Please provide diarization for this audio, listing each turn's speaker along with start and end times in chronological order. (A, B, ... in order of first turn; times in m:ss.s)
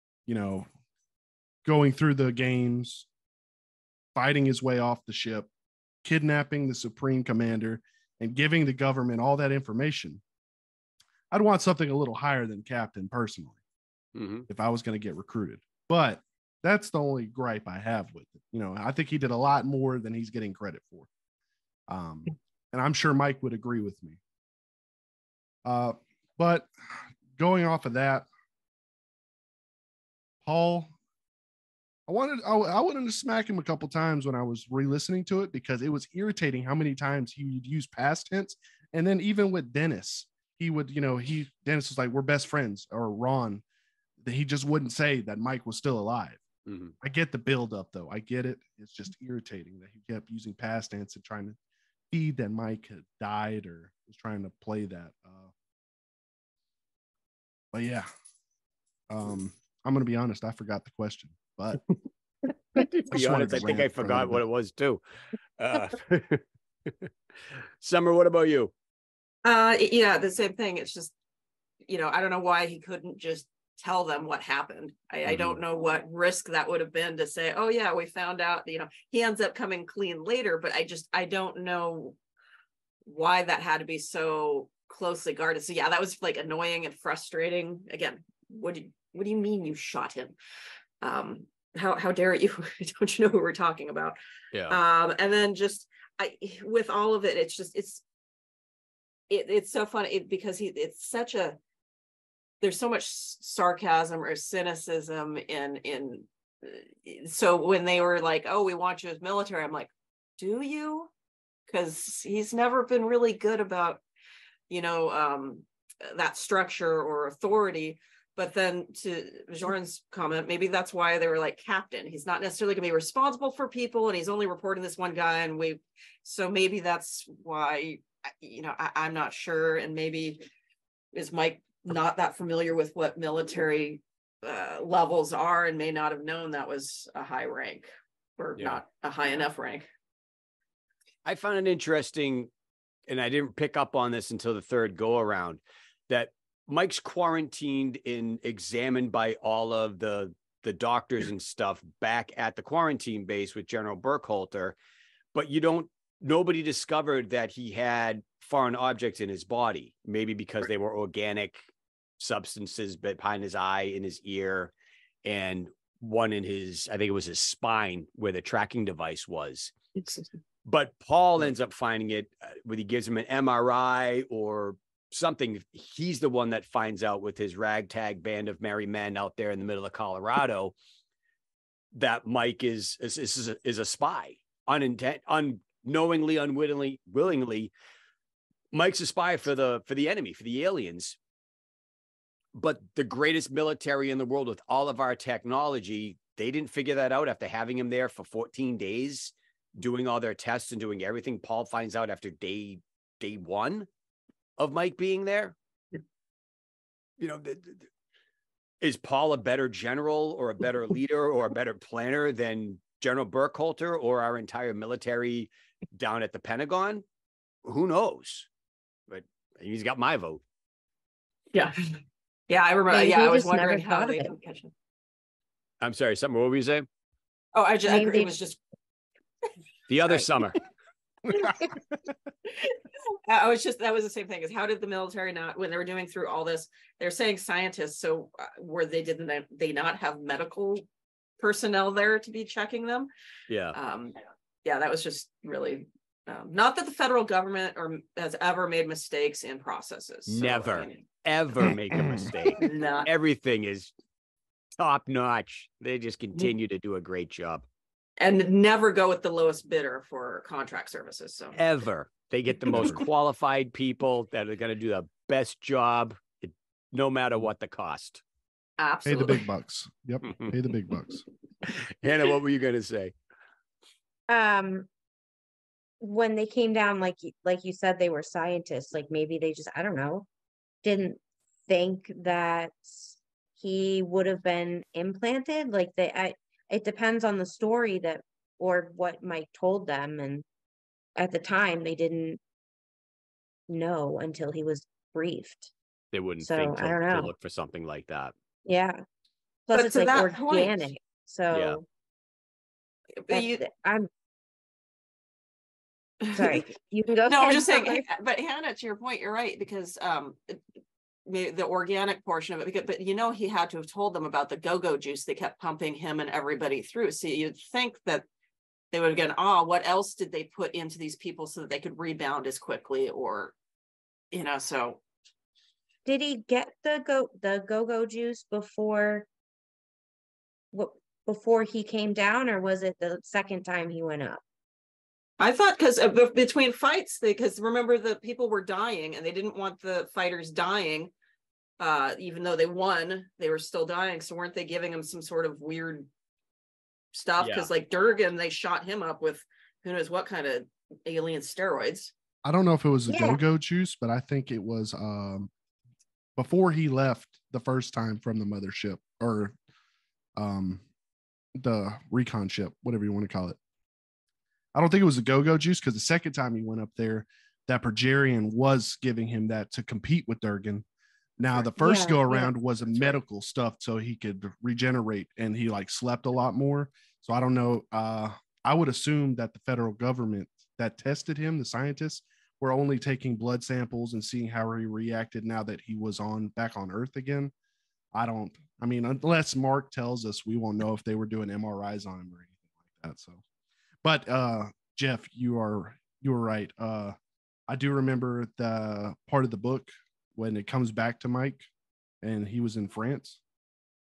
0:00.3-0:00.7 A
0:01.6-0:03.1 A
0:04.1-0:05.5 A
0:06.0-0:10.2 A
0:11.3-0:13.6 A
0:14.1-0:14.5 B
0:14.5-0:21.1 A
0:21.9-0:24.2 A
0:25.6-0:26.7 A
0:27.4-0:28.3 A
0:30.4-0:30.9 A
0:32.1-0:43.6 A
0:44.2-0:46.4 A
0:46.7-0:46.9 B
0:47.0-0:51.6 A
0:52.1-0:55.5 A
0:57.7-0:58.1 A
0:59.1-1:01.8 A
1:02.8-1:05.0 B
1:03.0-1:04.4 A
1:05.6-1:08.7 B
1:09.4-1:11.1 C
1:11.9-1:22.2 C
1:15.2-1:15.6 B
1:23.0-1:30.4 C
1:31.0-1:34.2 C
1:34.5-1:34.8 B
1:34.7-1:38.0 C
1:39.3-1:41.6 C
1:42.6-1:51.1 C
1:51.7-1:54.0 C
1:54.7-2:10.4 C
2:11.1-2:19.9 C
2:21.2-2:22.5 B
2:23.1-2:34.8 B
2:35.3-2:41.6 B
2:42.2-2:44.7 B
2:45.2-2:49.7 B
2:50.6-3:00.8 B
3:01.9-3:07.7 B
3:08.7-3:11.2 B
3:12.5-3:23.9 B
3:24.6-3:25.6 B
3:27.2-3:27.9 B
3:28.8-3:37.0 B
3:37.6-3:38.5 B
3:39.1-3:40.4 B
3:41.5-3:44.7 C
3:42.9-3:44.3 D
3:45.8-3:46.8 B
3:47.5-3:48.6 C
3:47.8-3:48.3 D
3:49.9-3:50.6 B
3:51.3-3:51.6 C
3:52.4-4:00.8 C
4:01.4-4:03.1 C
4:03.5-4:03.8 B
4:03.7-4:11.0 C
4:10.3-4:13.9 B
4:12.0-4:12.3 A
4:12.5-4:13.1 C
4:14.8-4:17.6 B
4:18.2-4:21.6 C
4:21.6-4:28.2 B
4:22.7-4:23.0 A
4:28.8-4:29.4 C
4:29.0-4:31.2 A
4:31.6-4:33.1 B
4:34.3-4:34.9 D
4:36.0-4:40.3 D
4:40.8-4:50.4 D
4:51.2-4:52.4 D
4:53.7-4:55.7 D
4:56.1-4:58.3 B
4:56.4-4:57.3 D
4:58.6-4:59.0 D
4:59.7-5:01.8 D
4:59.7-5:00.9 C
5:01.5-5:01.8 B
5:03.2-5:03.6 C
5:03.3-5:04.1 D
5:06.2-5:06.7 C
5:06.3-5:08.0 D
5:07.2-5:10.6 C
5:11.2-5:18.2 C
5:18.9-5:23.5 C
5:24.3-5:25.0 C
5:26.0-5:29.3 D
5:30.7-5:34.4 D
5:35.4-5:41.1 C
5:41.8-5:46.1 C
5:47.1-5:52.1 C
5:47.4-5:47.7 B
5:52.4-5:55.5 A
5:53.1-5:53.4 D
5:56.4-5:59.5 A
6:00.4-6:00.8 A
6:01.6-6:03.6 A
6:04.7-6:10.8 A
6:11.4-6:27.5 A
6:11.8-6:12.5 D
6:28.1-6:33.4 A
6:34.0-6:37.1 A
6:37.7-6:41.6 A
6:42.2-6:43.4 A